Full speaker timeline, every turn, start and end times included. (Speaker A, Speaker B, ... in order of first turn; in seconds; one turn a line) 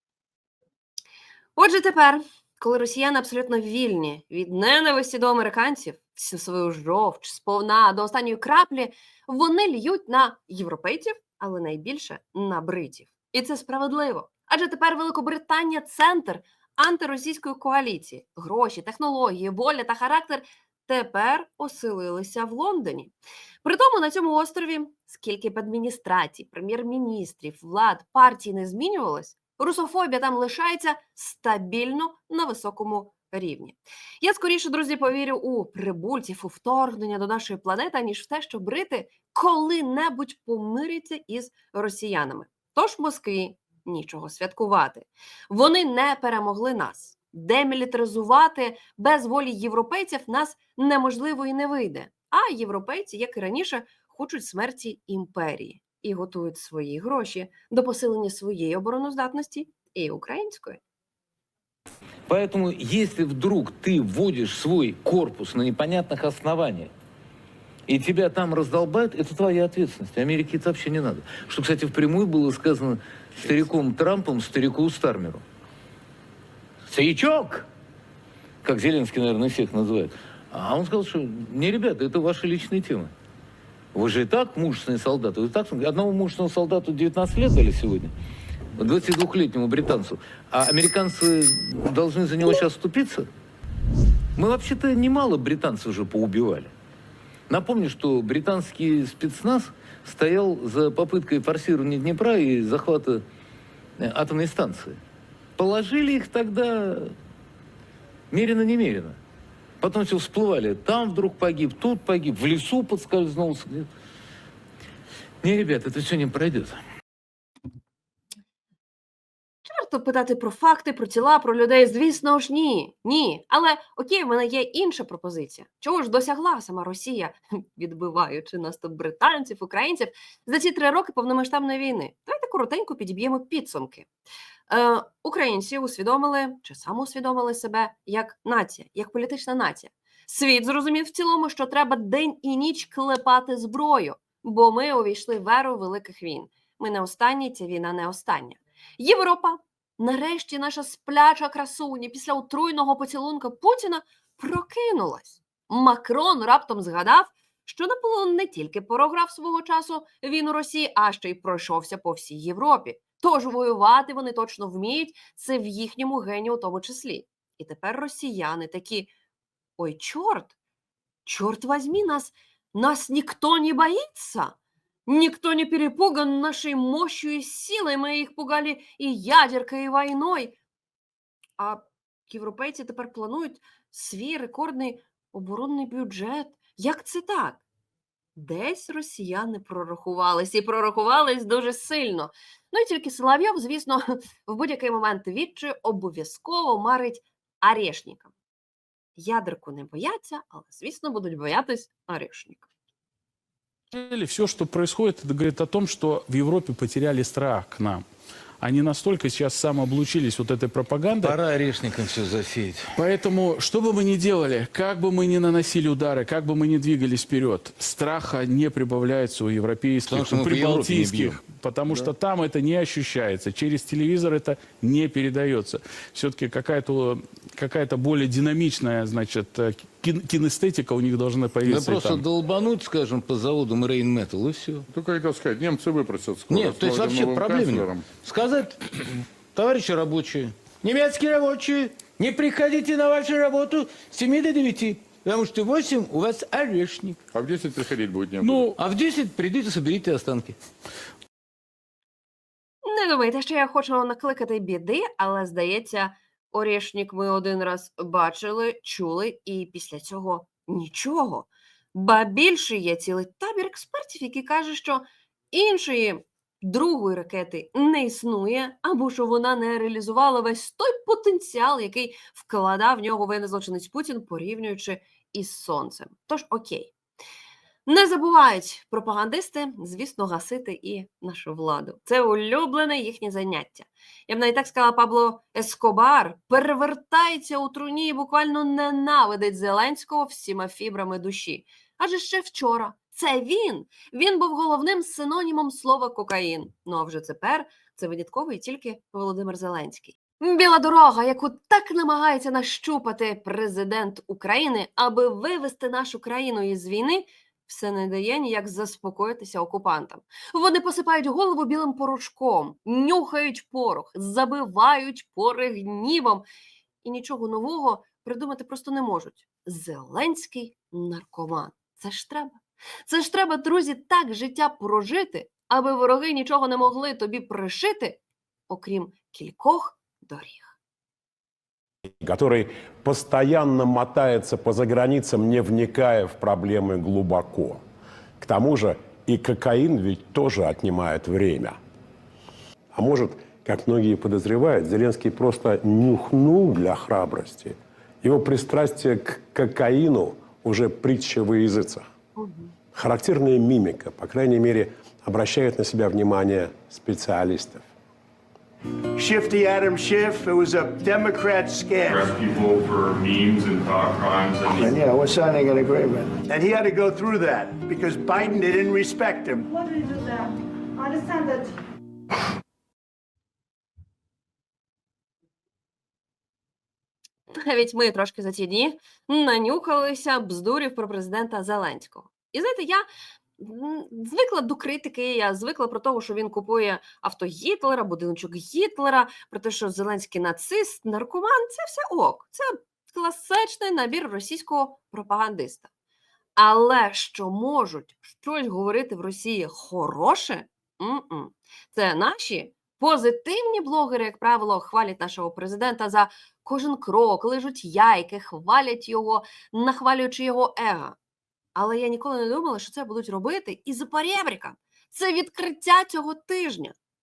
Speaker A: 1.6-23.1
Speaker A: 23.6-60.8
Speaker B: 62.3-66.9
Speaker B: 67.9-75.4
Speaker B: 76.9-77.7
Speaker B: 78.6-83.1
Speaker B: 83.9-88.1
Speaker B: 88.8-93.3
Speaker B: 94.4-96.7
Speaker B: 97.5-103.2
Speaker B: 104.0-105.0
Speaker B: 105.6-107.2
Speaker B: 108.3-109.2
Speaker B: 109.8-113.9
Speaker B: 115.4-116.8
Speaker A: 119.7-134.1
Speaker A: 134.7-169.1
Speaker A: 169.8-170.6
Speaker A: 171.2-174.6
Speaker A: 175.1-180.6
Speaker A: 181.6-187.6
Speaker A: 188.4-198.3
Speaker A: 199.2-202.7
Speaker C: 203.9-208.1
Speaker C: 208.6-211.4
Speaker B: 211.2-212.9
Speaker C: 213.0-232.2
Speaker B: 220.1-222.1
Speaker B: 231.7-234.9
Speaker D: 234.9-238.1
Speaker B: 236.5-247.2
Speaker D: 247.3-248.7
Speaker C: 248.4-248.8
Speaker B: 248.7-250.6
Speaker A: 252.8-276.9
Speaker A: 277.9-316.4
Speaker A: 317.0-330.8
Speaker E: 332.2-337.8
Speaker E: 338.4-341.8
Speaker E: 342.9-352.1
Speaker A: 352.4-352.7
Speaker E: 352.9-357.9
Speaker F: 359.2-362.3
Speaker G: 362.1-365.0
Speaker F: 364.7-369.7
Speaker H: 369.7-371.8
Speaker A: 377.5-383.1
Speaker A: 383.6-395.9
Speaker A: 396.6-411.2
Speaker A: 411.8-416.9